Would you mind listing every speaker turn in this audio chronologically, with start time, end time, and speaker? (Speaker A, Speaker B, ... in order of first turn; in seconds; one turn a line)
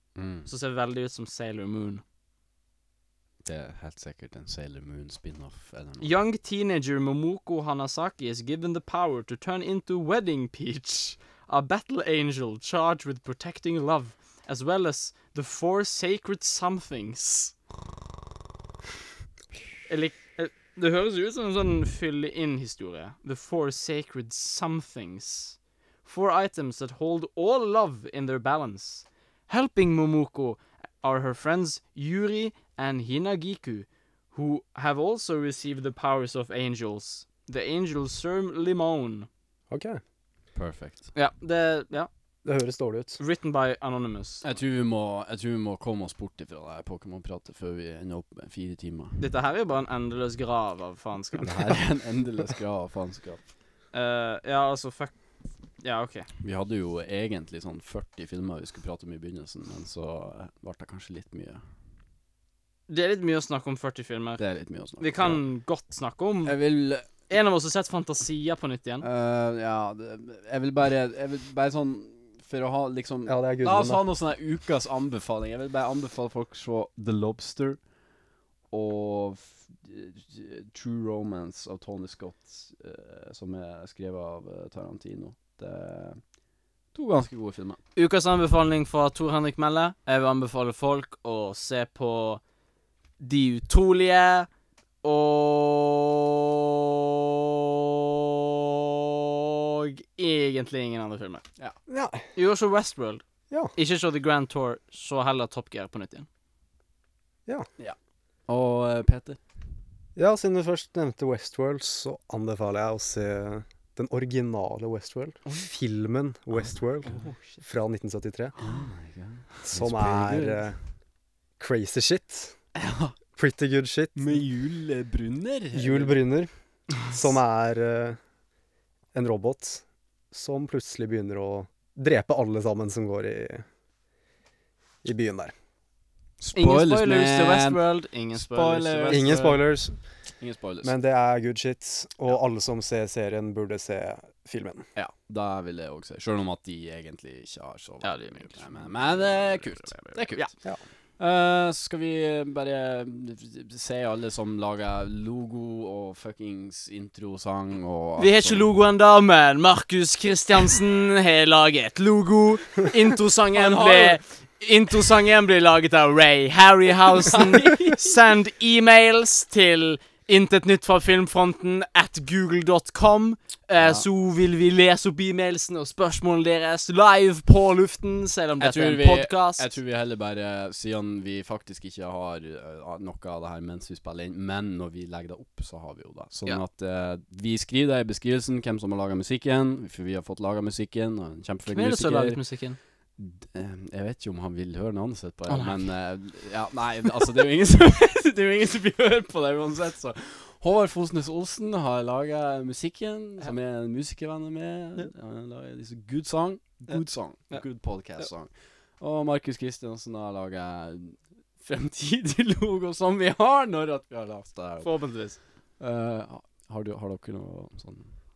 Speaker A: 0.1-0.5
Speaker B: 0.5-2.0
Speaker A: 3.4-6.1
Speaker B: 6.0-17.5
Speaker B: 19.9-39.3
Speaker C: 39.7-40.0
Speaker A: 40.5-41.1
Speaker B: 41.1-42.1
Speaker C: 42.4-43.2
Speaker B: 43.2-44.4
Speaker A: 44.4-49.2
Speaker B: 49.2-51.6
Speaker A: 51.4-53.4
Speaker B: 53.9-55.1
Speaker B: 55.8-56.3
Speaker A: 56.4-61.6
Speaker B: 62.9-64.4
Speaker A: 64.4-65.4
Speaker B: 65.0-66.6
Speaker A: 66.4-67.1
Speaker B: 67.3-69.1
Speaker A: 69.0-77.8
Speaker C: 73.3-74.0
Speaker A: 78.7-86.2
Speaker A: 86.9-87.8
Speaker B: 87.9-92.4
Speaker B: 93.2-94.5
Speaker B: 95.0-101.4
Speaker C: 101.9-102.2
Speaker B: 102.3-103.2
Speaker B: 103.7-106.3
Speaker A: 108.5-109.4
Speaker C: 110.2-118.5
Speaker B: 117.0-117.6
Speaker A: 118.6-120.7
Speaker C: 119.6-120.8
Speaker C: 121.6-122.5
Speaker A: 122.8-123.1
Speaker C: 123.3-124.4
Speaker A: 124.1-126.2
Speaker C: 125.7-128.2
Speaker C: 129.1-133.6
Speaker C: 135.0-135.5
Speaker A: 136.4-139.6
Speaker B: 136.5-139.6
Speaker C: 139.1-140.0
Speaker A: 140.4-140.9
Speaker C: 140.8-144.8
Speaker A: 144.9-150.5
Speaker B: 148.0-150.5
Speaker A: 151.2-158.7
Speaker B: 158.2-179.7
Speaker A: 163.5-164.2
Speaker A: 167.2-168.1
Speaker A: 173.8-174.0
Speaker A: 178.6-192.4
Speaker B: 191.7-192.8
Speaker A: 193.2-214.9
Speaker B: 195.5-195.8
Speaker B: 206.9-207.6
Speaker B: 214.8-215.4
Speaker A: 215.8-218.1